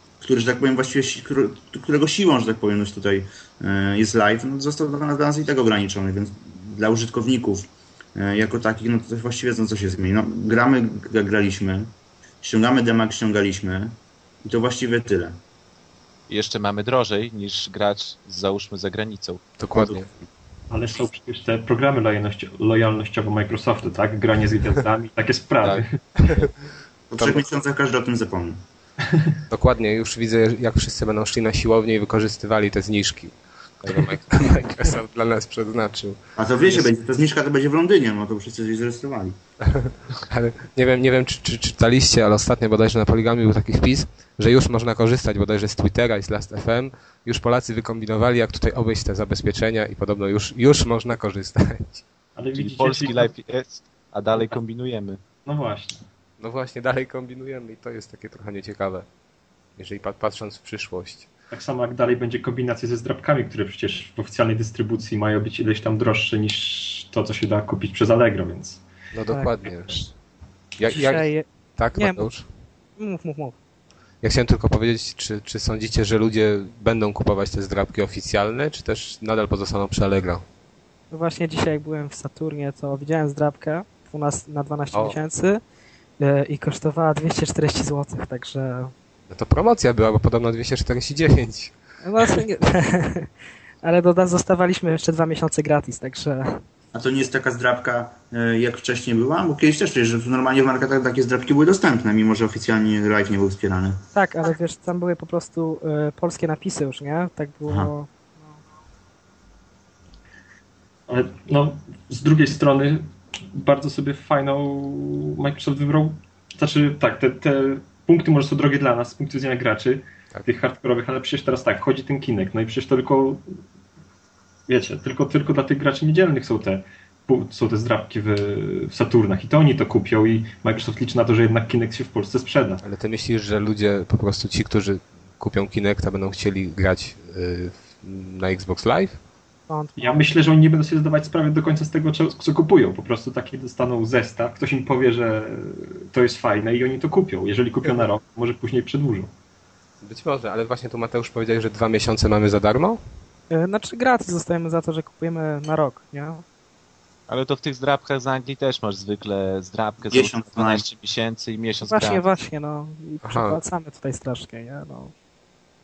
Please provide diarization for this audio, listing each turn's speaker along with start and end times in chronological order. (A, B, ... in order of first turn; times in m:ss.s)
0:00.2-0:15.4 A
0:16.3-0:20.1 B
0:19.6-0:20.1 C
0:20.7-0:26.0 D
0:25.6-0:26.5 B
0:27.1-0:28.6 A
0:29.1-0:29.4 D
0:29.5-0:33.3 C
0:33.8-0:34.2 B
0:33.9-0:36.2 C
0:36.4-0:39.4 A
0:39.6-0:52.0 C
0:52.4-0:53.3 D
0:52.6-0:55.2 B
0:55.5-0:56.0 D
0:56.4-0:59.1 C
0:59.8-1:01.3 C
1:01.5-1:08.8 D
1:09.1-1:10.0 C
1:09.3-1:10.1 E
1:10.8-1:12.5 C
1:10.9-1:12.3 E
1:13.0-1:13.6 E
1:14.2-1:20.4 C
1:21.1-1:25.6 E
1:26.2-1:28.9 E
1:29.3-1:31.7 C
1:32.0-1:33.3 E
1:33.8-1:36.6 E
1:36.9-1:44.0 A
1:44.1-1:48.1 E
1:51.1-2:03.5 D
2:04.7-2:12.8 D
2:12.8-2:19.2 C
2:19.7-2:20.2 E
2:20.0-2:29.3 D
2:30.0-2:33.0 C
2:33.5-2:36.4 E
2:37.3-2:42.2 B
2:40.1-2:40.8 A
2:41.8-2:45.1 E
2:43.2-2:43.6 C